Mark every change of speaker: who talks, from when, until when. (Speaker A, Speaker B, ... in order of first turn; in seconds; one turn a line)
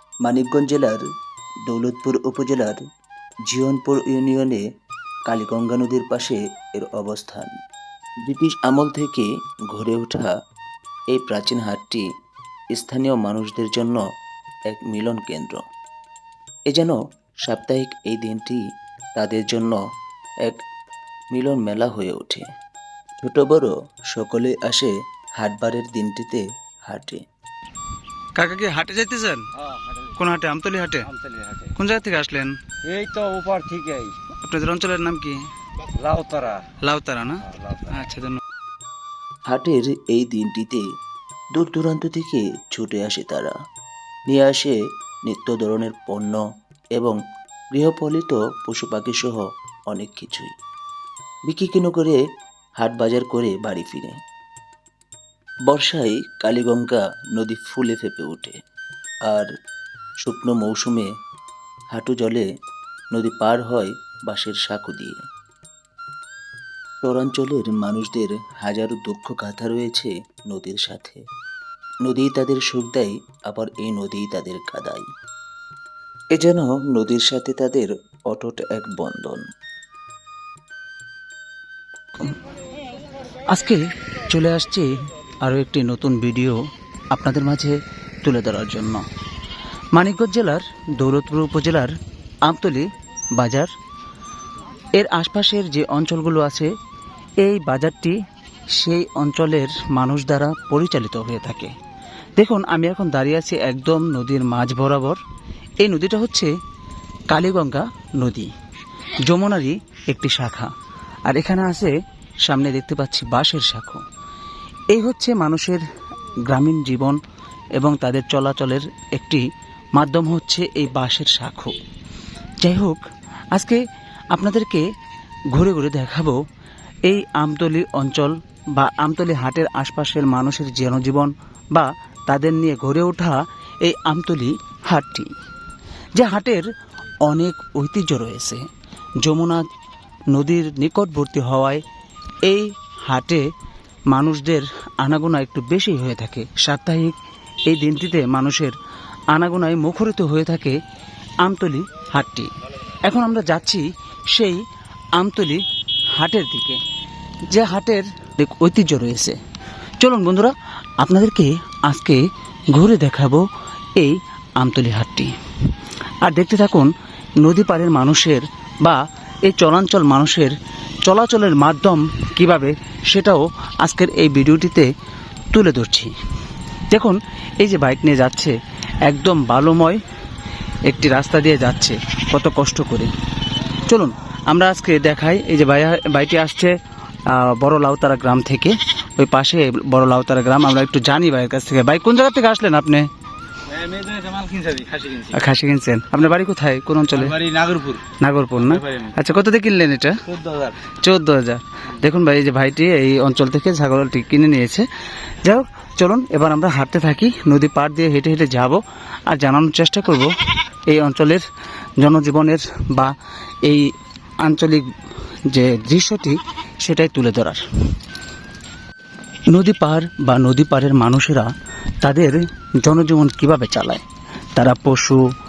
Speaker A: 0.2-1.0
Speaker A: 1.7-2.8
Speaker A: 3.5-4.6
Speaker A: 5.3-7.5
Speaker A: 8.3-10.3
Speaker A: 11.1-12.0
Speaker A: 12.7-14.0
Speaker A: 14.7-15.6
Speaker A: 16.7-18.6
Speaker A: 19.2-19.8
Speaker A: 21.3-22.4
Speaker A: 23.2-27.2
Speaker B: 28.3-29.4
Speaker C: 29.6-30.1
Speaker B: 30.2-31.1
Speaker C: 31.1-31.7
Speaker B: 31.8-32.6
Speaker C: 32.8-34.1
Speaker B: 34.4-35.4
Speaker C: 36.0-36.6
Speaker B: 36.8-38.4
Speaker C: 37.5-37.9
Speaker A: 39.5-40.8
Speaker A: 41.5-43.5
Speaker A: 44.3-44.8
Speaker A: 45.3-46.4
Speaker A: 47.7-50.5
Speaker A: 51.5-52.2
Speaker A: 52.8-54.2
Speaker A: 55.7-58.6
Speaker A: 60.2-61.1
Speaker A: 61.9-62.4
Speaker A: 63.1-65.2
Speaker A: 67.0-71.2
Speaker A: 72.0-75.0
Speaker A: 76.4-79.4
Speaker B: 83.5-89.0
Speaker B: 89.9-93.7
Speaker B: 94.9-96.7
Speaker B: 97.4-98.2
Speaker B: 98.7-101.7
Speaker B: 102.4-105.2
Speaker B: 105.8-106.5
Speaker B: 107.3-108.5
Speaker B: 109.2-110.7
Speaker B: 111.2-114.0
Speaker B: 114.9-115.8
Speaker B: 116.5-117.2
Speaker B: 117.8-121.8
Speaker B: 122.6-123.0
Speaker B: 123.5-123.8
Speaker B: 124.3-124.8
Speaker B: 125.5-126.4
Speaker B: 127.0-135.3
Speaker B: 136.1-136.7
Speaker B: 137.2-138.7
Speaker B: 139.2-139.7
Speaker B: 140.3-141.8
Speaker B: 142.4-143.5
Speaker B: 144.1-148.8
Speaker B: 149.3-150.8
Speaker B: 151.4-152.5
Speaker B: 153.0-154.6
Speaker B: 155.1-155.6
Speaker B: 156.2-156.8
Speaker B: 157.5-159.4
Speaker B: 160.0-163.4
Speaker B: 164.0-165.3
Speaker B: 166.2-174.9
Speaker B: 175.5-176.1
Speaker B: 176.9-180.0
Speaker B: 180.8-183.1
Speaker B: 183.8-193.1
Speaker C: 193.7-195.3
Speaker B: 195.3-197.3
Speaker C: 197.2-198.0
Speaker B: 198.2-200.2
Speaker C: 198.6-199.1
Speaker C: 200.3-200.8
Speaker B: 201.0-204.9
Speaker B: 205.4-210.3
Speaker B: 210.9-211.4
Speaker B: 212.0-214.9
Speaker B: 215.5-217.6
Speaker B: 219.5-221.5
Speaker B: 222.0-224.0
Speaker B: 224.6-225.3